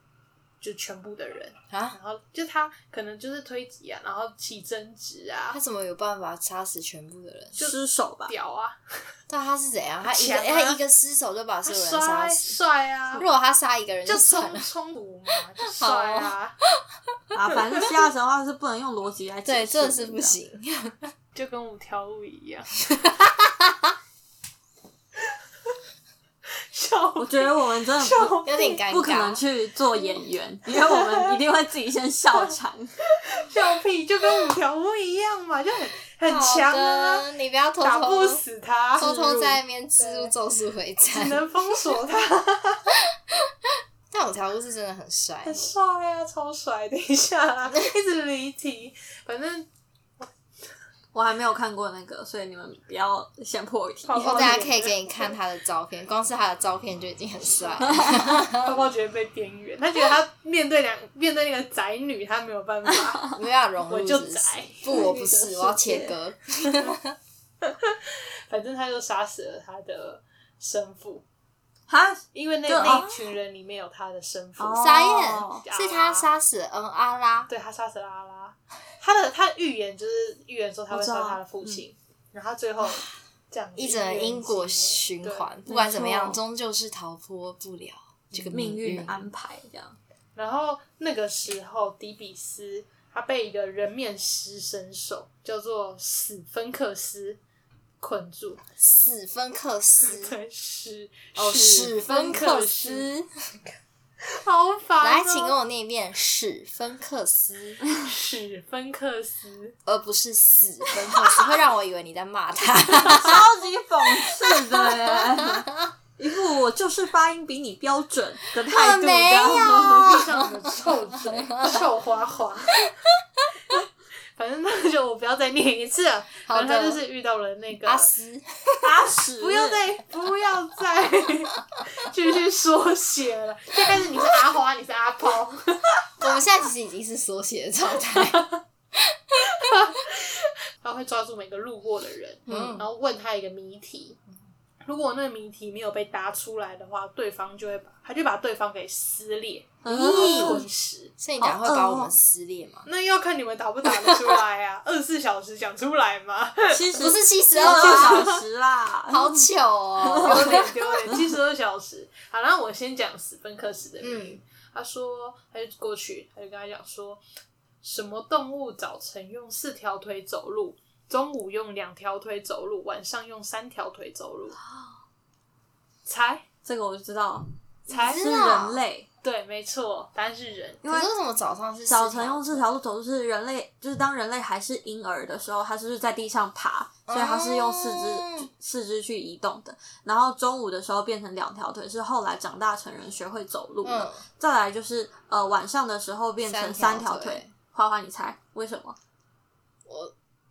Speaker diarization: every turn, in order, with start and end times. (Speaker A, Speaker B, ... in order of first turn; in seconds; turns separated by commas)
Speaker A: 0.6-5.6, Speaker B: 1.7-2.0, Speaker B: 5.5-7.5, Speaker A: 7.6-9.0, Speaker C: 7.6-8.3, Speaker B: 9.3-12.6, Speaker A: 10.1-10.8, Speaker A: 11.7-13.3, Speaker B: 13.1-14.7, Speaker A: 14.1-16.6, Speaker B: 15.6-16.7, Speaker C: 17.3-20.4, Speaker B: 19.4-21.1, Speaker A: 21.4-22.7, Speaker B: 22.9-23.7, Speaker A: 26.7-28.8, Speaker C: 27.2-33.0, Speaker B: 28.4-29.4, Speaker A: 30.9-31.2, Speaker A: 33.2-37.3, Speaker B: 36.2-38.4, Speaker A: 37.8-39.1, Speaker B: 39.0-41.5, Speaker C: 39.0-39.6, Speaker A: 40.0-40.3, Speaker A: 41.1-42.9, Speaker B: 44.1-45.7, Speaker A: 45.4-49.7, Speaker C: 51.1-54.6, Speaker A: 54.0-55.3, Speaker B: 54.2-58.7, Speaker C: 57.9-58.2, Speaker A: 58.5-63.3, Speaker B: 63.3-67.2, Speaker A: 63.9-65.1, Speaker C: 64.9-66.2, Speaker A: 67.6-71.2, Speaker C: 71.9-73.1, Speaker A: 72.3-76.3, Speaker B: 72.9-73.2, Speaker C: 74.6-75.6, Speaker B: 74.8-77.5, Speaker A: 77.5-85.5, Speaker C: 80.9-81.8, Speaker B: 83.8-89.2, Speaker C: 85.7-86.4, Speaker C: 88.5-90.0, Speaker A: 90.4-97.4, Speaker A: 98.0-98.6, Speaker B: 98.8-100.3, Speaker A: 100.0-103.1, Speaker B: 101.4-103.5, Speaker A: 104.2-105.6, Speaker B: 105.0-107.8, Speaker A: 108.0-109.8, Speaker B: 109.9-113.4, Speaker C: 113.1-120.2, Speaker B: 114.2-115.7, Speaker B: 118.6-121.8, Speaker A: 119.8-122.9, Speaker A: 124.4-128.1, Speaker B: 126.5-127.0, Speaker B: 127.8-128.9, Speaker C: 128.8-129.8, Speaker A: 129.4-136.0, Speaker B: 136.2-139.4, Speaker A: 139.5-144.2, Speaker B: 142.5-142.9, Speaker A: 144.8-151.1, Speaker C: 149.8-150.7, Speaker B: 149.9-150.7, Speaker B: 151.2-152.9, Speaker C: 151.4-152.2, Speaker A: 152.9-158.4, Speaker C: 156.7-159.5, Speaker B: 157.0-158.4, Speaker B: 159.1-160.7, Speaker C: 160.0-161.2, Speaker A: 160.2-167.2, Speaker B: 164.0-164.4, Speaker A: 167.8-174.6, Speaker C: 174.7-175.0, Speaker A: 176.1-176.4, Speaker C: 176.6-179.1, Speaker A: 177.9-178.3, Speaker B: 178.0-178.8, Speaker A: 179.2-180.8, Speaker C: 180.8-181.1, Speaker B: 180.8-182.7, Speaker C: 181.9-199.0, Speaker B: 187.1-188.5, Speaker B: 193.8-194.2, Speaker B: 196.4-197.5, Speaker B: 199.9-200.1